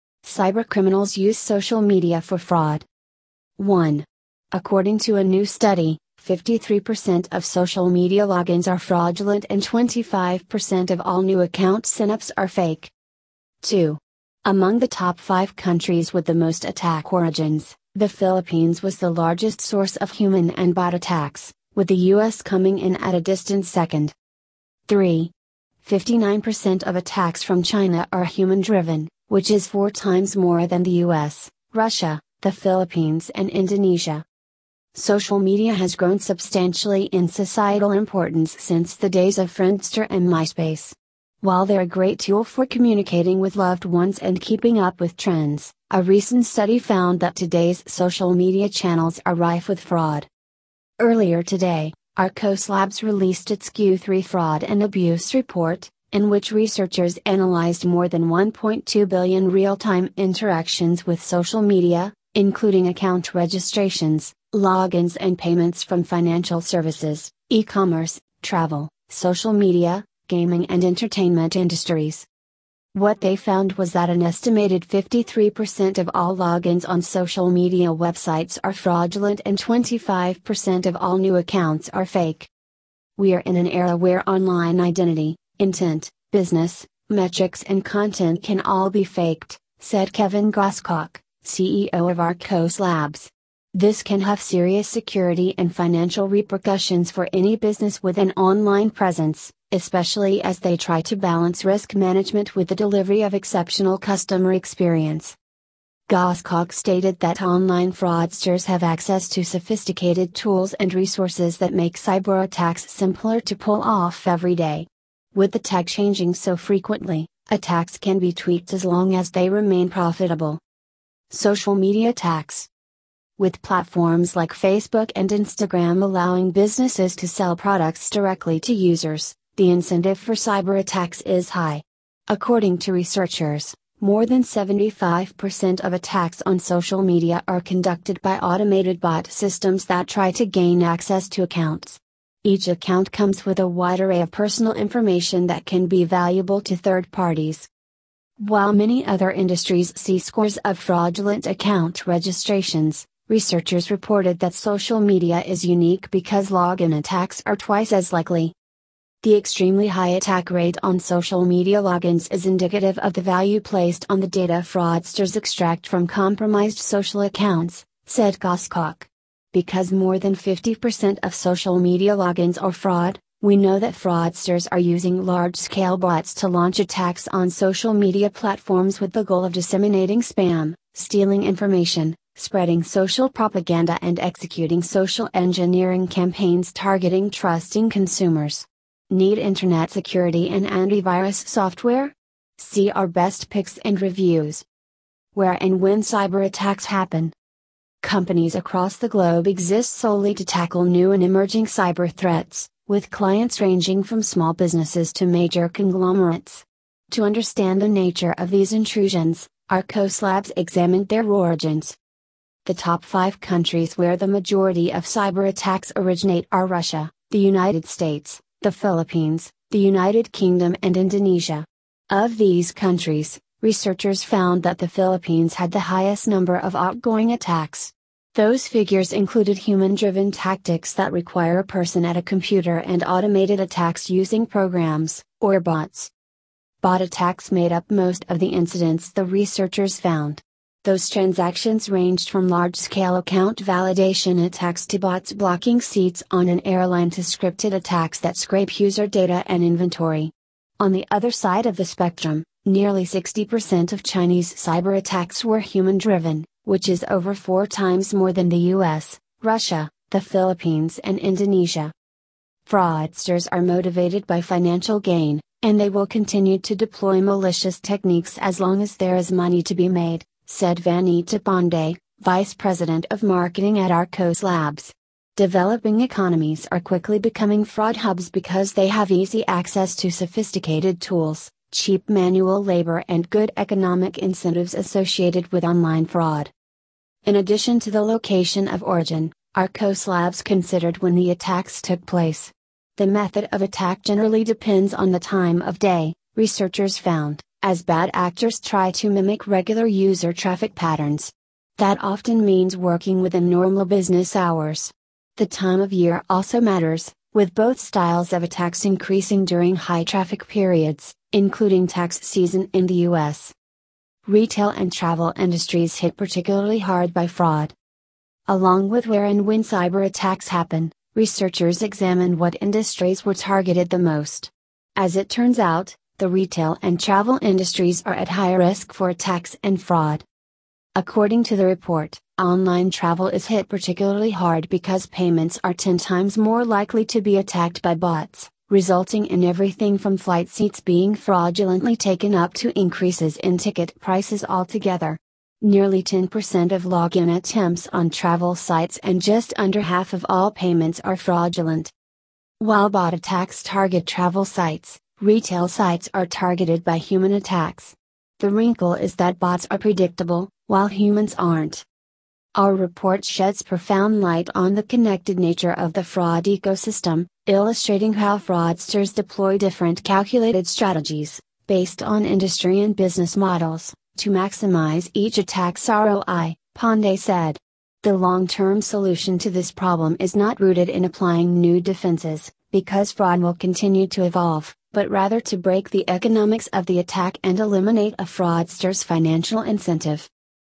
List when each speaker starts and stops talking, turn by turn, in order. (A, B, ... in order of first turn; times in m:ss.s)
0:00.2-0:02.9 A
0:03.6-0:12.9 A
0:13.6-0:24.1 A
0:24.9-0:34.2 A
0:34.9-0:50.3 A
0:51.0-1:12.3 A
1:12.9-1:22.5 A
1:23.2-1:45.4 A
1:46.1-2:00.6 A
2:01.3-2:02.7 A
2:03.4-2:27.7 A
2:28.4-2:38.6 A
2:39.2-3:14.7 A
3:15.3-3:17.4 A
3:18.0-3:32.0 A
3:32.6-3:56.1 A
3:56.8-4:21.9 A
4:22.7-4:46.5 A
4:47.2-5:13.5 A
5:14.2-5:17.7 A
5:18.5-5:30.2 A
5:31.0-5:51.9 A
5:52.6-6:01.8 A
6:02.6-6:30.3 A